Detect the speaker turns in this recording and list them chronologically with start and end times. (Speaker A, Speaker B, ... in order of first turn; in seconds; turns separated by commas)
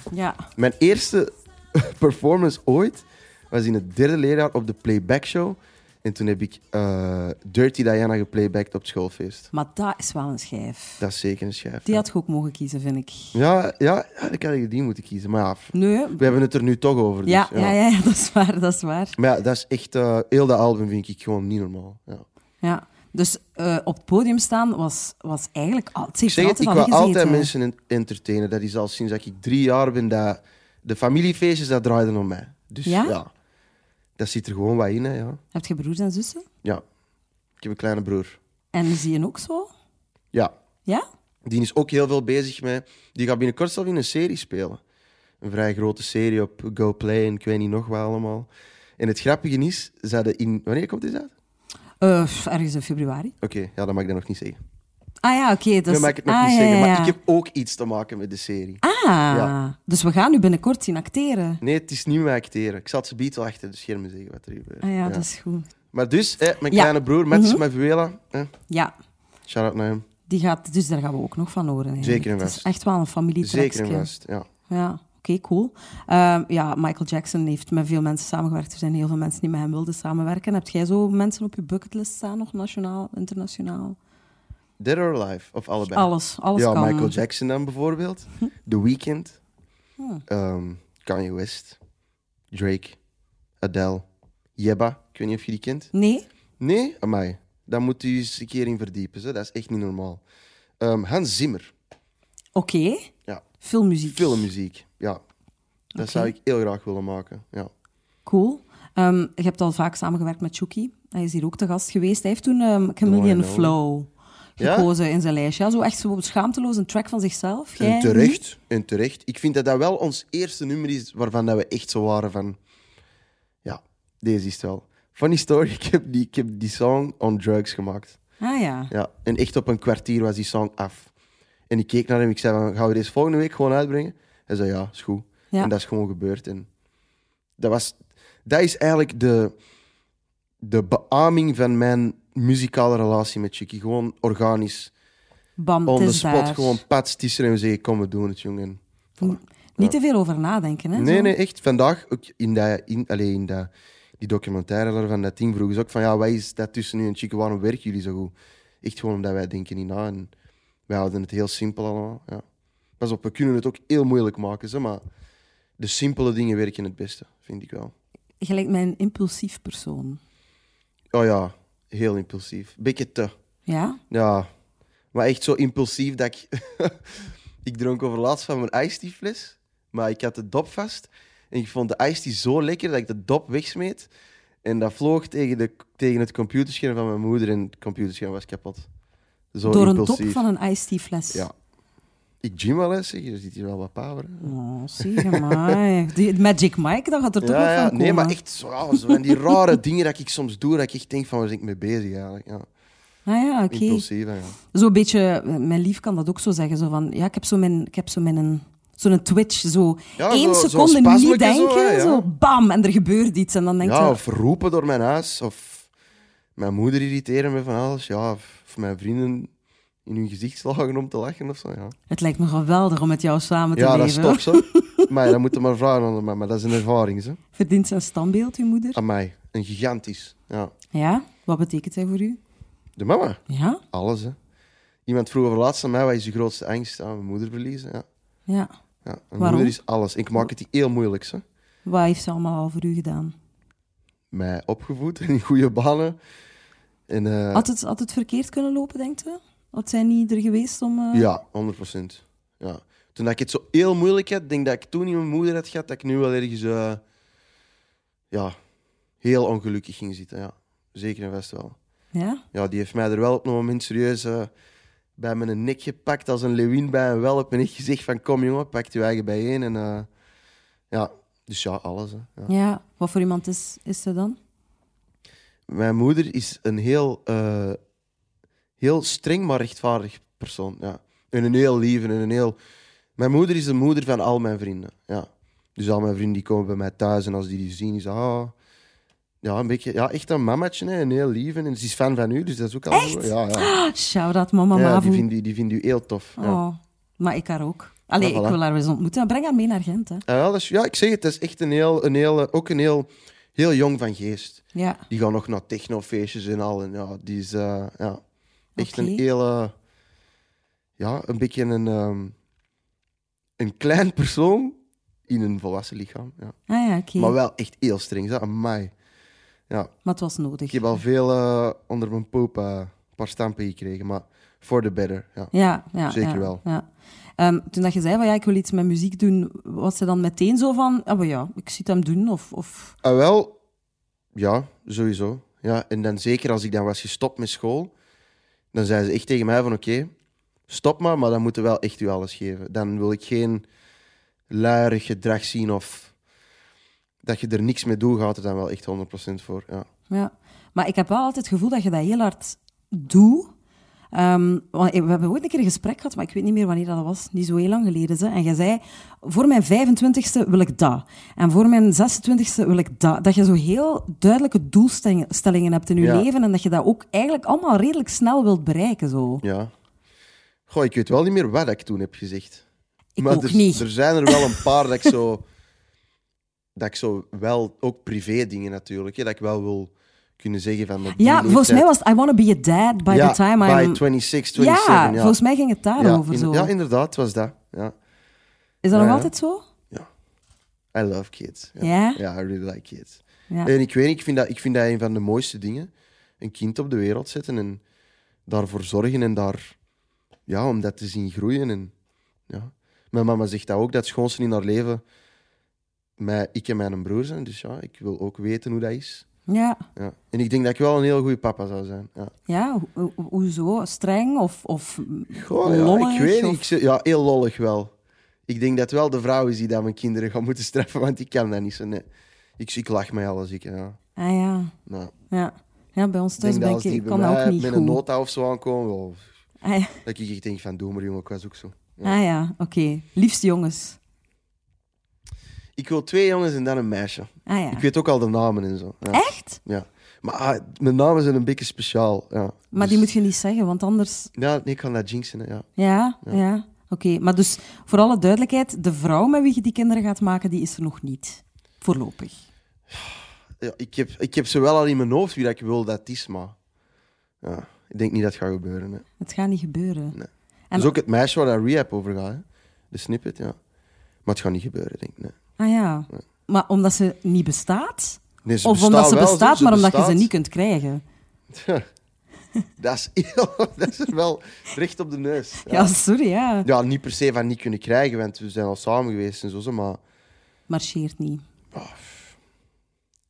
Speaker A: 0.1-0.5, Speaker B: 0.6-9.5, Speaker A: 9.5-11.0, Speaker B: 11.0-12.0, Speaker A: 11.9-13.4, Speaker B: 13.3-17.7, Speaker A: 15.7-16.3, Speaker A: 17.3-19.2, Speaker B: 19.2-22.2, Speaker A: 22.6-27.5, Speaker B: 26.3-33.3, Speaker A: 32.9-33.2, Speaker B: 34.2-35.4, Speaker A: 35.5-36.5, Speaker B: 37.6-38.4, Speaker A: 38.7-39.7, Speaker B: 41.5-44.8, Speaker B: 45.4-51.3, Speaker A: 52.0-53.3, Speaker B: 53.4-54.6, Speaker A: 55.2-57.2, Speaker B: 55.9-59.5, Speaker A: 58.8-61.6, Speaker B: 61.6-65.2, Speaker A: 64.8-65.7, Speaker B: 65.9-68.5, Speaker A: 66.7-67.6, Speaker B: 69.5-70.0, Speaker A: 70.3-74.1, Speaker B: 72.0-72.7, Speaker B: 73.4-74.5, Speaker A: 74.7-84.0, Speaker B: 84.8-89.4, Speaker A: 85.9-87.2, Speaker A: 90.0-90.2, Speaker B: 90.3-91.8, Speaker B: 92.5-93.0, Speaker B: 93.6-94.0, Speaker B: 94.6-95.9, Speaker A: 95.9-96.3, Speaker B: 96.6-100.2, Speaker B: 100.8-101.7, Speaker A: 102.6-103.1, Speaker A: 103.6-104.5, Speaker B: 104.0-105.2, Speaker A: 106.0-106.3, Speaker B: 106.0-107.7, Speaker A: 108.3-118.4, Speaker B: 113.0-113.8, Speaker B: 114.6-114.9, Speaker B: 117.8-122.6, Speaker B: 123.6-128.2, Speaker A: 128.4-128.9, Speaker B: 128.9-131.1, Speaker B: 131.7-136.7, Speaker B: 137.6-139.6, Speaker B: 140.6-144.9, Speaker A: 145.6-146.8, Speaker B: 145.9-149.9, Speaker A: 149.2-151.3, Speaker B: 150.9-160.3, Speaker B: 160.9-162.4, Speaker B: 163.0-165.0, Speaker B: 165.8-167.9, Speaker A: 168.4-170.2, Speaker B: 171.1-173.3, Speaker A: 173.7-174.0, Speaker B: 174.1-174.5, Speaker B: 175.1-184.1, Speaker B: 184.6-188.9, Speaker B: 189.5-190.4, Speaker A: 189.7-191.5, Speaker B: 192.4-195.8, Speaker A: 194.4-198.4, Speaker B: 197.4-202.7, Speaker A: 198.9-199.6, Speaker A: 203.3-204.1, Speaker B: 203.7-204.6, Speaker A: 204.7-214.2, Speaker B: 210.2-212.3, Speaker B: 213.8-215.9, Speaker B: 216.6-219.5, Speaker B: 220.1-221.9, Speaker A: 222.1-225.1, Speaker B: 223.8-227.4, Speaker A: 227.6-229.0, Speaker B: 228.9-230.7, Speaker A: 230.9-232.4, Speaker B: 233.0-234.4, Speaker A: 233.5-233.8, Speaker B: 235.1-238.1, Speaker B: 239.1-241.4, Speaker A: 239.4-239.8, Speaker A: 241.8-243.3, Speaker B: 244.3-246.2, Speaker B: 247.1-247.7, Speaker A: 247.5-251.3, Speaker B: 251.1-257.0, Speaker B: 258.3-258.6, Speaker B: 259.2-261.8, Speaker A: 262.1-262.4, Speaker B: 262.5-264.5, Speaker B: 265.2-270.1, Speaker B: 270.9-272.5, Speaker A: 272.5-274.4, Speaker B: 275.7-277.8, Speaker B: 278.8-282.6, Speaker B: 283.2-288.5, Speaker B: 289.4-293.7, Speaker A: 292.9-295.3, Speaker B: 294.7-296.6, Speaker A: 296.4-300.2, Speaker B: 298.2-298.6, Speaker B: 300.3-308.2, Speaker A: 304.8-305.0, Speaker A: 308.8-309.2, Speaker B: 308.8-309.7, Speaker B: 311.0-312.3, Speaker B: 313.6-316.6, Speaker A: 316.7-317.4, Speaker B: 317.2-318.9, Speaker A: 320.0-320.8, Speaker B: 320.7-325.5, Speaker A: 325.5-326.9, Speaker B: 326.1-326.6, Speaker A: 327.4-333.0, Speaker B: 333.0-333.6, Speaker B: 334.3-337.9, Speaker B: 338.7-340.1, Speaker B: 340.7-343.7, Speaker B: 344.5-346.1, Speaker B: 347.2-349.9, Speaker A: 350.1-353.5, Speaker A: 354.1-369.4, Speaker B: 366.0-366.3, Speaker B: 369.4-369.7, Speaker B: 370.7-372.6, Speaker A: 373.2-374.6, Speaker B: 373.2-375.4, Speaker B: 376.8-381.9, Speaker A: 381.1-384.0, Speaker B: 383.1-385.4, Speaker A: 384.6-386.7, Speaker B: 386.0-387.9, Speaker A: 388.8-389.6, Speaker B: 388.9-389.3, Speaker B: 390.9-397.8, Speaker A: 391.8-392.2, Speaker B: 398.5-399.7, Speaker B: 400.5-401.9, Speaker B: 402.5-405.0, Speaker B: 406.2-409.3, Speaker A: 409.5-409.8, Speaker B: 410.0-412.3, Speaker A: 412.5-416.7, Speaker B: 415.3-417.9, Speaker B: 418.5-422.1, Speaker B: 422.6-424.0, Speaker A: 424.2-424.7, Speaker B: 424.9-425.1, Speaker A: 425.3-428.0, Speaker B: 426.4-429.3, Speaker A: 429.6-430.0, Speaker B: 430.0-432.2, Speaker A: 432.0-434.0, Speaker B: 435.8-443.1, Speaker A: 437.5-437.9, Speaker A: 439.1-439.6, Speaker A: 442.7-444.3, Speaker B: 444.4-445.7, Speaker A: 445.8-452.4, Speaker B: 452.9-456.6, Speaker B: 457.4-459.1, Speaker A: 459.2-460.2, Speaker B: 460.1-463.6, Speaker B: 464.2-465.4, Speaker A: 465.6-471.0, Speaker B: 468.4-470.3, Speaker B: 471.5-471.9, Speaker B: 472.8-475.9, Speaker A: 475.6-476.7, Speaker B: 476.6-480.0, Speaker A: 480.7-481.4, Speaker B: 481.7-482.3